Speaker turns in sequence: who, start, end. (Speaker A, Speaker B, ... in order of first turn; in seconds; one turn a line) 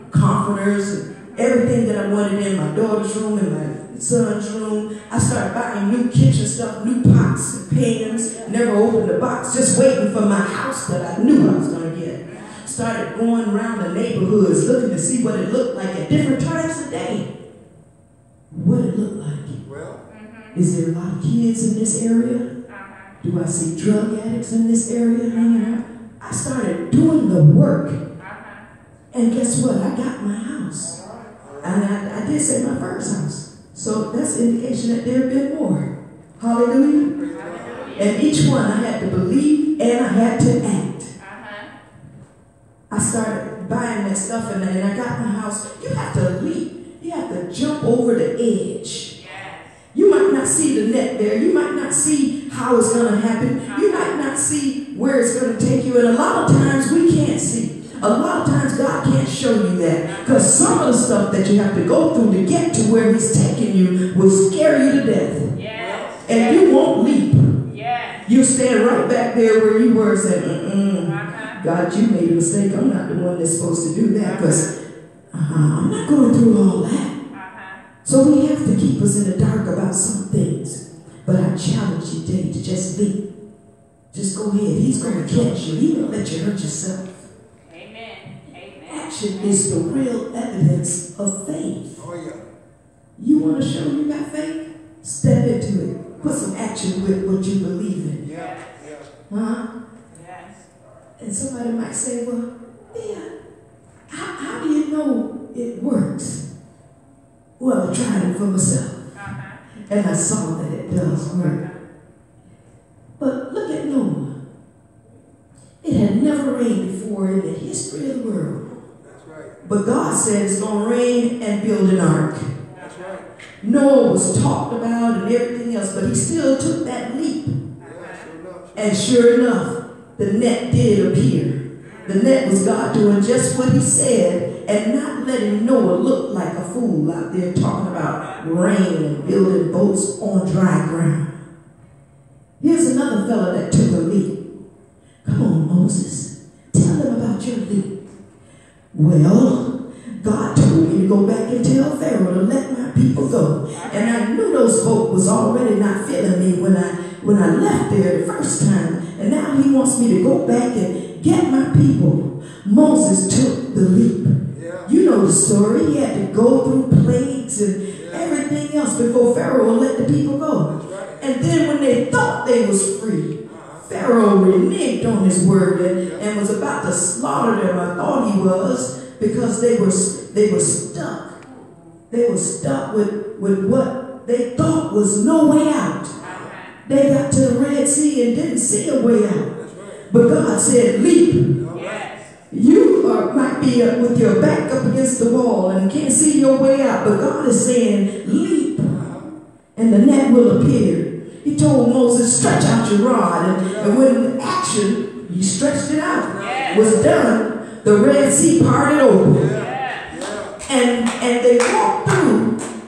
Speaker A: 0.1-17.3
Speaker A: 18.5-19.6
Speaker B: 19.7-20.0
Speaker C: 20.1-20.6
Speaker A: 20.5-22.5
Speaker C: 22.7-23.2
Speaker A: 23.2-28.0
Speaker C: 28.2-28.6
Speaker A: 29.1-31.0
Speaker B: 31.4-31.7
Speaker A: 31.6-35.9
Speaker A: 36.4-37.1
Speaker B: 37.2-37.9
Speaker C: 37.4-38.2
Speaker A: 38.0-41.1
Speaker C: 41.2-41.7
Speaker A: 42.9-49.1
Speaker C: 49.2-49.8
Speaker A: 49.9-65.5
Speaker C: 53.7-54.0
Speaker C: 65.5-66.7
Speaker B: 65.8-66.2
Speaker A: 66.3-67.4
Speaker C: 67.7-68.3
Speaker A: 68.3-74.7
Speaker C: 71.1-71.6
Speaker A: 75.3-77.1
Speaker C: 77.3-77.8
Speaker A: 78.0-83.2
Speaker A: 84.1-87.2
Speaker C: 87.7-89.1
Speaker A: 88.9-92.0
Speaker B: 92.0-92.4
Speaker A: 93.2-98.2
Speaker B: 98.2-99.1
Speaker C: 98.3-98.8
Speaker A: 99.3-99.6
Speaker C: 100.1-100.7
Speaker A: 101.2-103.3
Speaker A: 104.1-106.4
Speaker A: 107.6-109.1
Speaker C: 109.2-109.6
Speaker A: 109.9-111.6
Speaker C: 111.3-111.7
Speaker A: 113.2-114.3
Speaker A: 115.8-118.8
Speaker B: 119.0-119.5
Speaker A: 119.6-122.5
Speaker B: 122.8-123.3
Speaker A: 123.6-127.5
Speaker B: 127.8-128.9
Speaker C: 127.9-128.2
Speaker A: 128.8-141.3
Speaker A: 142.6-144.3
Speaker A: 145.2-147.9
Speaker A: 148.9-181.4
Speaker B: 164.5-164.9
Speaker B: 167.9-168.2
Speaker B: 170.8-171.2
Speaker B: 173.5-173.8
Speaker A: 182.1-186.1
Speaker C: 186.2-186.7
Speaker A: 186.9-189.5
Speaker A: 190.1-191.6
Speaker B: 191.6-191.9
Speaker C: 191.7-192.4
Speaker A: 192.5-198.9
Speaker B: 199.0-199.2
Speaker A: 199.8-209.5
Speaker C: 206.4-206.8
Speaker B: 206.5-206.9
Speaker B: 209.4-210.6
Speaker C: 209.5-210.1
Speaker A: 210.7-212.6